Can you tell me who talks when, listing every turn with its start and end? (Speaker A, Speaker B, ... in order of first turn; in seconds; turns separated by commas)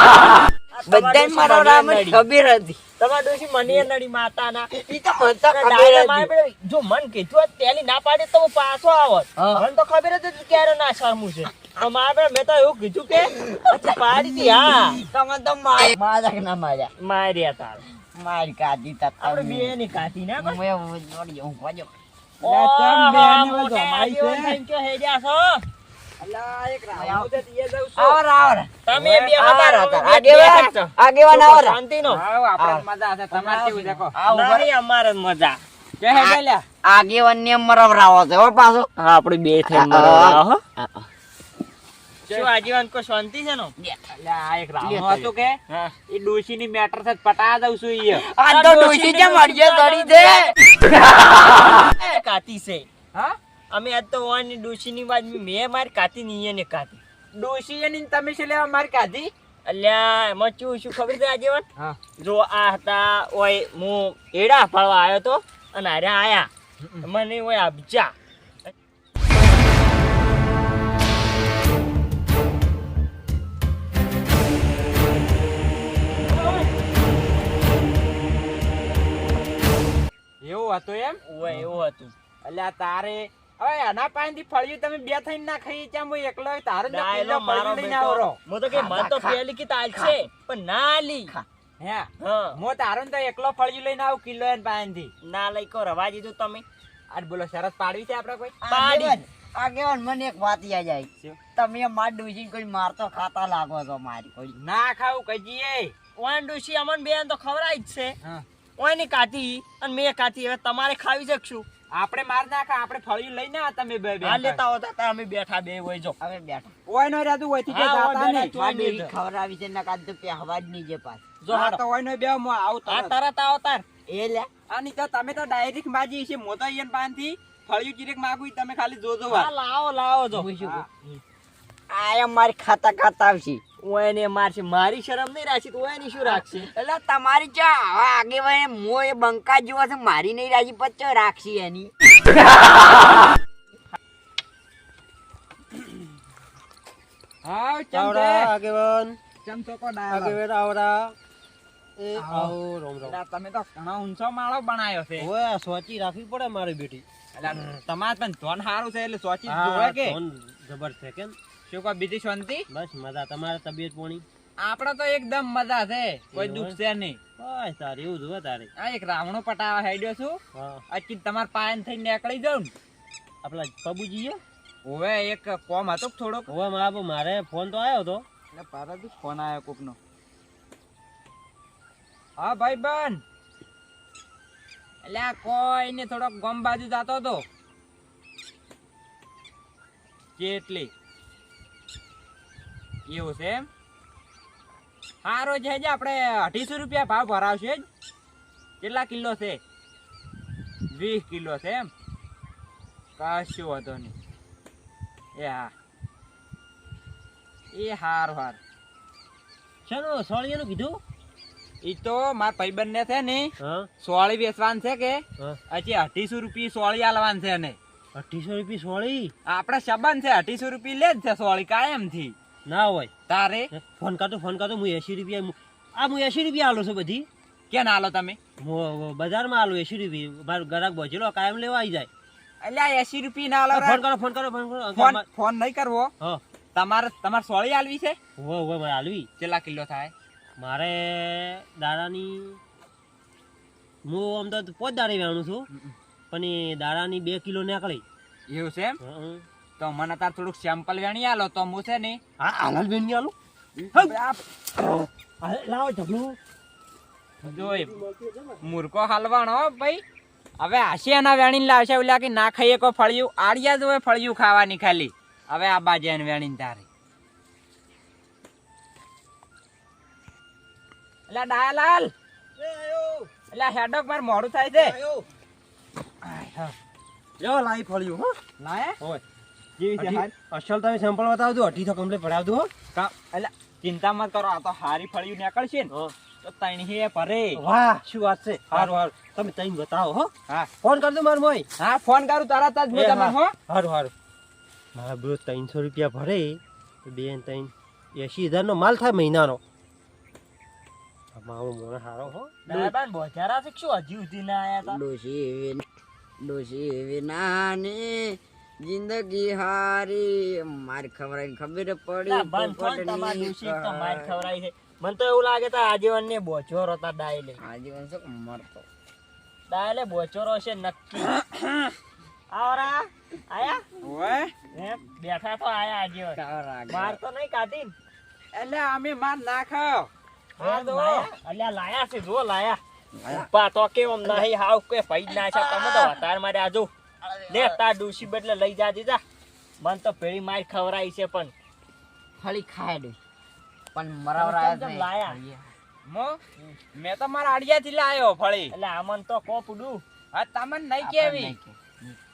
Speaker A: 0.7-2.2, Speaker B: 0.9-2.8, Speaker A: 3.0-4.7, Speaker B: 4.7-6.3, Speaker A: 5.5-15.0, Speaker B: 9.4-9.7, Speaker B: 13.4-14.4, Speaker B: 15.0-16.9, Speaker A: 17.0-17.8, Speaker B: 18.1-19.7, Speaker A: 19.2-20.6, Speaker B: 20.4-21.9, Speaker C: 22.4-24.6, Speaker A: 22.4-25.7, Speaker C: 26.2-28.2, Speaker B: 26.9-27.3, Speaker B: 28.0-28.7, Speaker A: 28.9-32.2, Speaker C: 28.9-29.4, Speaker B: 29.4-31.8, Speaker C: 32.1-34.1, Speaker B: 32.6-34.7, Speaker A: 34.2-35.6, Speaker C: 36.0-36.6, Speaker B: 36.1-38.9, Speaker A: 39.0-40.6, Speaker B: 39.7-41.1, Speaker A: 42.3-43.7, Speaker B: 43.8-44.1, Speaker C: 44.1-48.2, Speaker B: 44.8-45.3, Speaker A: 45.7-46.0, Speaker B: 48.1-50.6, Speaker A: 48.5-50.5, Speaker A: 51.8-52.9, Speaker A: 53.7-57.0, Speaker C: 57.3-59.3, Speaker A: 59.6-61.7, Speaker A: 62.2-66.5, Speaker A: 67.0-68.2, Speaker C: 80.4-81.2, Speaker A: 81.2-82.1, Speaker C: 82.4-88.4, Speaker A: 86.9-91.3, Speaker B: 88.7-89.4, Speaker C: 91.8-95.1, Speaker A: 92.2-92.6, Speaker A: 95.2-96.7, Speaker C: 97.1-98.6, Speaker B: 98.6-104.6, Speaker A: 98.7-99.2, Speaker C: 104.6-105.9, Speaker A: 106.2-108.2, Speaker A: 108.8-111.7, Speaker C: 111.9-114.6, Speaker A: 114.2-116.2, Speaker B: 116.2-116.7, Speaker C: 116.9-118.5, Speaker A: 117.7-119.1, Speaker B: 118.5-121.2, Speaker A: 121.4-121.8, Speaker C: 121.5-123.2, Speaker A: 122.9-123.9, Speaker B: 124.1-124.5, Speaker C: 124.7-129.5, Speaker A: 129.3-131.2, Speaker B: 130.3-130.8, Speaker C: 130.6-130.8, Speaker B: 131.9-133.6, Speaker A: 133.8-136.7, Speaker B: 136.2-141.9, Speaker C: 147.4-148.5, Speaker D: 147.9-149.2, Speaker C: 149.4-150.4, Speaker D: 150.1-151.2, Speaker D: 152.0-153.2, Speaker C: 152.2-155.3, Speaker D: 155.2-157.1, Speaker C: 157.4-160.2, Speaker D: 159.5-161.3, Speaker C: 161.7-162.7, Speaker D: 162.7-164.2, Speaker C: 164.6-167.2, Speaker D: 166.3-166.8, Speaker D: 167.4-168.7, Speaker C: 168.8-170.4, Speaker D: 170.6-170.8, Speaker C: 170.9-172.7, Speaker D: 173.4-174.4, Speaker C: 174.8-176.5, Speaker D: 176.5-178.2, Speaker C: 178.5-180.0, Speaker C: 182.4-183.2, Speaker C: 185.0-187.4, Speaker C: 190.4-190.9, Speaker C: 193.1-193.7, Speaker C: 195.2-197.9, Speaker C: 198.8-199.6, Speaker C: 200.9-201.9, Speaker C: 203.2-204.2, Speaker C: 205.4-205.7, Speaker C: 207.7-208.6, Speaker D: 209.9-211.0, Speaker C: 211.8-217.8, Speaker D: 213.6-213.9, Speaker D: 218.2-219.3, Speaker C: 219.5-222.3, Speaker D: 222.7-223.1, Speaker C: 223.3-223.7, Speaker D: 223.7-227.3, Speaker C: 227.7-228.4, Speaker D: 228.6-232.1, Speaker C: 232.6-234.0, Speaker D: 233.7-235.2, Speaker C: 234.9-236.1, Speaker C: 236.8-238.2, Speaker D: 238.4-239.3, Speaker C: 239.4-240.1, Speaker D: 240.6-242.6, Speaker D: 244.1-245.7, Speaker D: 246.3-248.0, Speaker C: 248.5-249.0, Speaker D: 249.0-249.5, Speaker C: 249.8-252.2, Speaker D: 252.4-253.3, Speaker C: 254.0-254.4, Speaker D: 254.8-256.4, Speaker C: 257.4-258.0, Speaker D: 257.4-258.8, Speaker C: 258.6-260.0, Speaker C: 260.6-266.9, Speaker C: 271.3-272.1, Speaker D: 272.6-273.3, Speaker C: 273.5-275.0, Speaker D: 274.7-275.2, Speaker C: 276.2-276.7, Speaker D: 277.4-278.4, Speaker C: 278.6-278.9, Speaker C: 279.8-280.3, Speaker D: 280.0-282.7, Speaker C: 282.9-285.9, Speaker C: 286.4-287.6, Speaker D: 287.6-290.3, Speaker D: 290.8-291.7, Speaker C: 291.8-293.5, Speaker D: 292.9-294.1, Speaker D: 294.9-299.6, Speaker D: 301.3-302.5, Speaker A: 302.7-305.0, Speaker B: 304.8-305.9, Speaker B: 306.4-314.4, Speaker A: 312.3-317.6, Speaker B: 317.6-318.9, Speaker A: 319.7-321.3, Speaker C: 321.5-321.9, Speaker A: 322.5-323.9, Speaker C: 324.0-324.5, Speaker A: 324.7-326.4, Speaker B: 326.4-327.2, Speaker A: 326.9-327.9, Speaker C: 328.5-331.3, Speaker A: 330.6-336.9, Speaker B: 335.3-336.1, Speaker B: 337.2-337.8, Speaker A: 337.5-339.2, Speaker A: 339.8-341.5, Speaker B: 342.4-343.2, Speaker B: 343.9-345.7, Speaker A: 344.4-345.4, Speaker C: 346.1-346.4, Speaker C: 346.9-348.7, Speaker A: 348.7-350.0, Speaker C: 350.3-351.6, Speaker B: 351.0-352.2